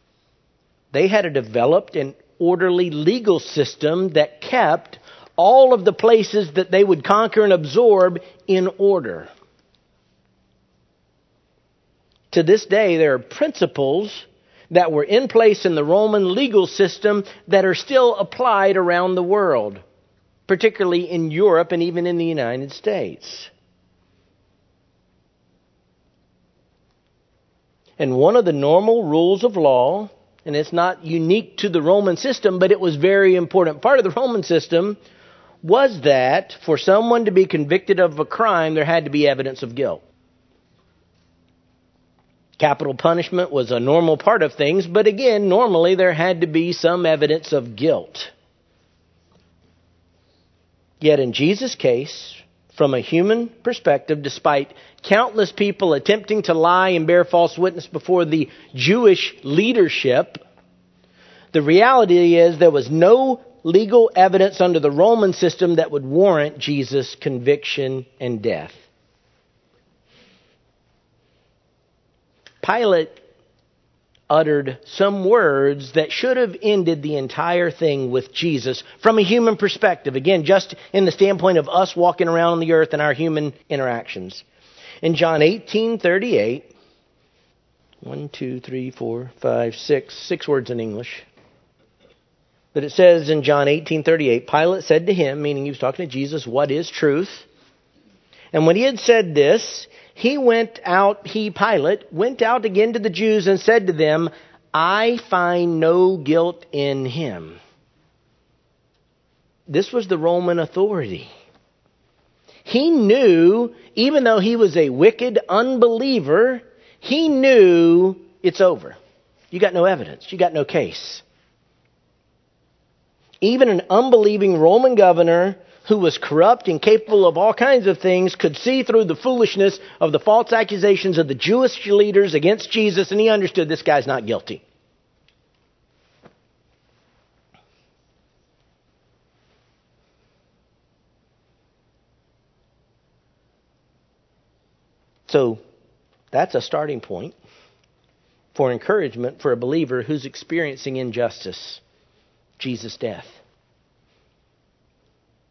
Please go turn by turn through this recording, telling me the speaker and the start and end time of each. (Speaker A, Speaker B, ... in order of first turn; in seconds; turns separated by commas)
Speaker A: 0.9-9.3, Speaker A: 12.3-19.8, Speaker A: 20.5-23.5, Speaker A: 28.0-35.0, Speaker A: 35.6-40.0, Speaker A: 42.6-48.3, Speaker A: 51.0-60.4, Speaker A: 61.5-68.9, Speaker A: 72.6-73.2, Speaker A: 74.3-84.4, Speaker A: 85.0-86.7, Speaker A: 88.0-91.2, Speaker A: 92.7-97.5, Speaker A: 98.5-107.6, Speaker A: 109.7-111.3, Speaker A: 112.6-119.0, Speaker A: 119.5-121.2, Speaker A: 123.4-134.6, Speaker A: 145.3-145.6, Speaker A: 146.3-147.3, Speaker A: 148.5-151.8, Speaker A: 152.6-153.4